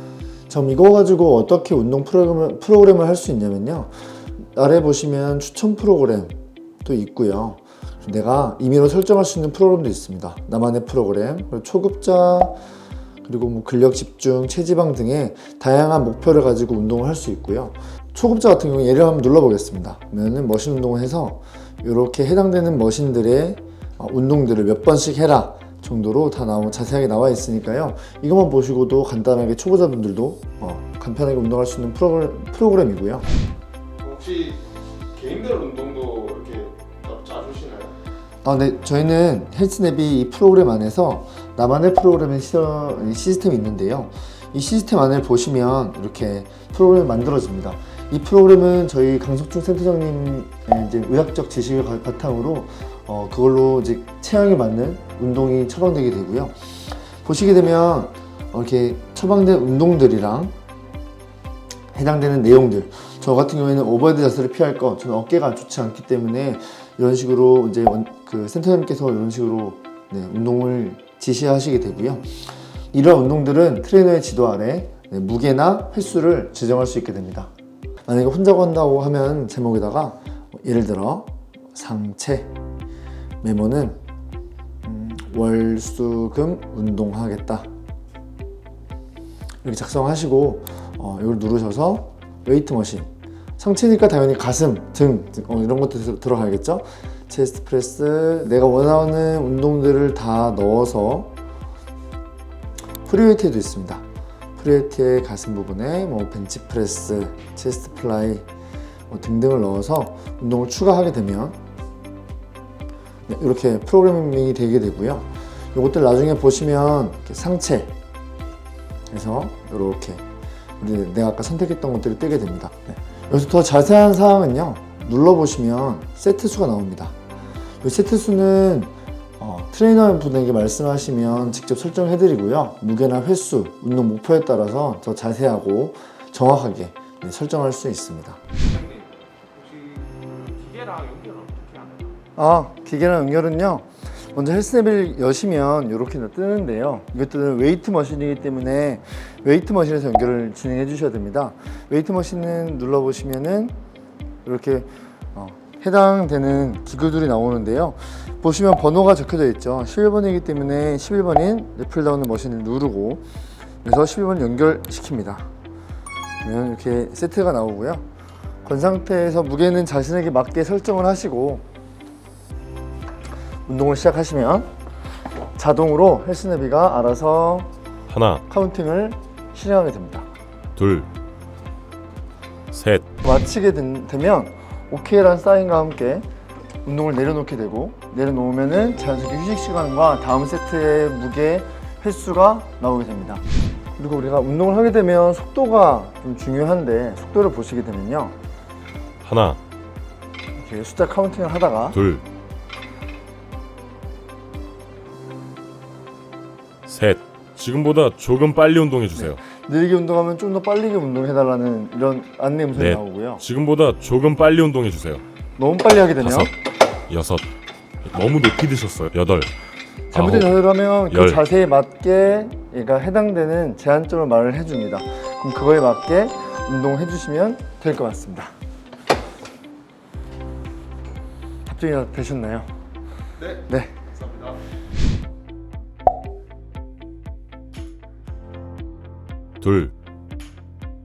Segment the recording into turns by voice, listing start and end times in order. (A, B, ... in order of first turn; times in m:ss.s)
0:00.5-0:12.6 A
0:13.2-0:33.3 A
0:34.0-0:34.6 B
0:35.2-0:37.9 B
0:38.4-0:56.6 A
0:57.2-1:00.5 A
1:01.9-1:12.4 A
1:12.9-1:17.5 A
1:18.1-1:22.5 A
1:23.4-1:24.0 A
1:24.8-1:27.7 A
1:29.6-1:41.3 A
1:43.0-1:44.0 A
1:44.6-1:48.5 A
1:49.1-1:51.6 A
1:53.3-1:57.9 A
1:59.1-2:00.2 A
2:00.8-2:07.1 A
2:07.8-2:18.4 A
2:18.6-2:22.2 B
2:22.4-2:33.8 A
2:34.4-2:43.2 A
2:43.8-2:45.5 A
2:46.4-2:48.0 A
2:48.6-2:51.6 A
2:53.7-2:54.7 A
2:55.6-2:57.7 A
2:58.1-2:58.4 C
2:58.5-3:00.3 A
3:00.8-3:01.1 C
3:02.7-3:03.0 C
3:03.2-3:06.3 A
3:06.8-3:13.4 A
3:14.0-3:18.4 A
3:19.2-3:19.6 C
3:20.6-3:22.0 A
3:21.9-3:22.2 C
3:26.9-3:29.4 C
3:29.2-3:33.4 A
3:32.8-3:35.2 C
3:35.6-3:36.5 A
3:36.2-3:36.5 C
3:37.1-3:37.5 C
3:38.1-3:39.5 C
3:40.1-3:48.5 A
3:40.1-3:40.5 C
3:41.1-3:41.4 C
3:51.6-3:52.7 A
3:53.4-3:54.6 B
3:53.7-3:54.0 A
3:59.6-3:59.9 C